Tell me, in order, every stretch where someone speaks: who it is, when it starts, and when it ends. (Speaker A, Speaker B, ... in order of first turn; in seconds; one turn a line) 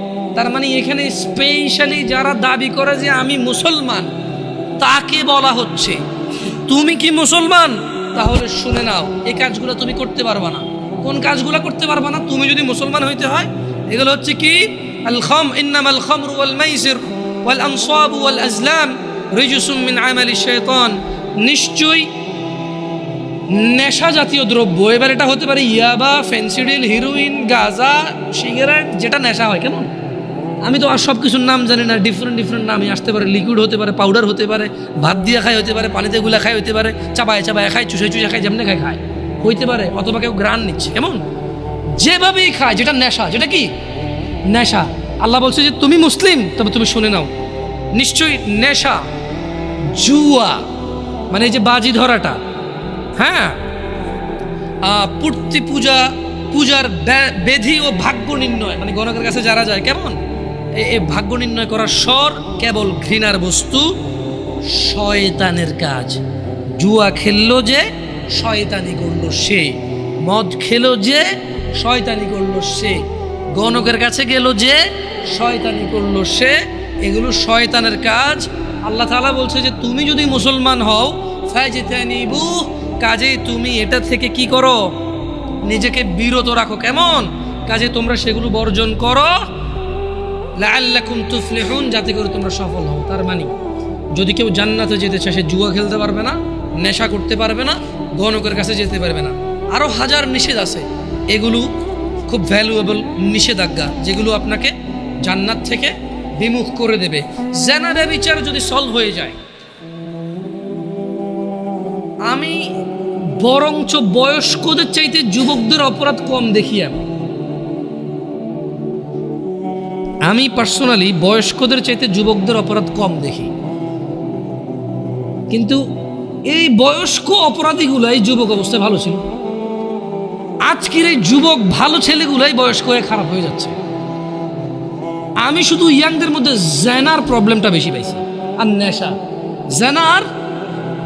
Speaker A: 0.3-4.1
Speaker A: 4.8-6.0
Speaker A: 6.7-22.1
Speaker A: 23.5-29.9
Speaker A: 30.6-41.2
Speaker A: 42.0-43.7
Speaker A: 44.5-47.3
Speaker A: 47.9-49.1
Speaker A: 49.9-50.6
Speaker A: 51.3-52.4
Speaker A: 53.2-53.6
Speaker A: 54.8-60.2
Speaker A: 60.7-64.0
Speaker A: 64.7-66.2
Speaker A: 66.8-84.9
Speaker A: 85.6-89.4
Speaker A: 90.6-93.6
Speaker A: 94.1-101.7
Speaker A: 102.3-109.4
Speaker A: 112.3-112.7
Speaker A: 113.4-117.0
Speaker A: 120.3-123.5
Speaker A: 125.5-125.8
Speaker A: 126.5-129.2
Speaker A: 130.6-133.8
Speaker A: 135.4-139.2
Speaker A: 139.7-140.3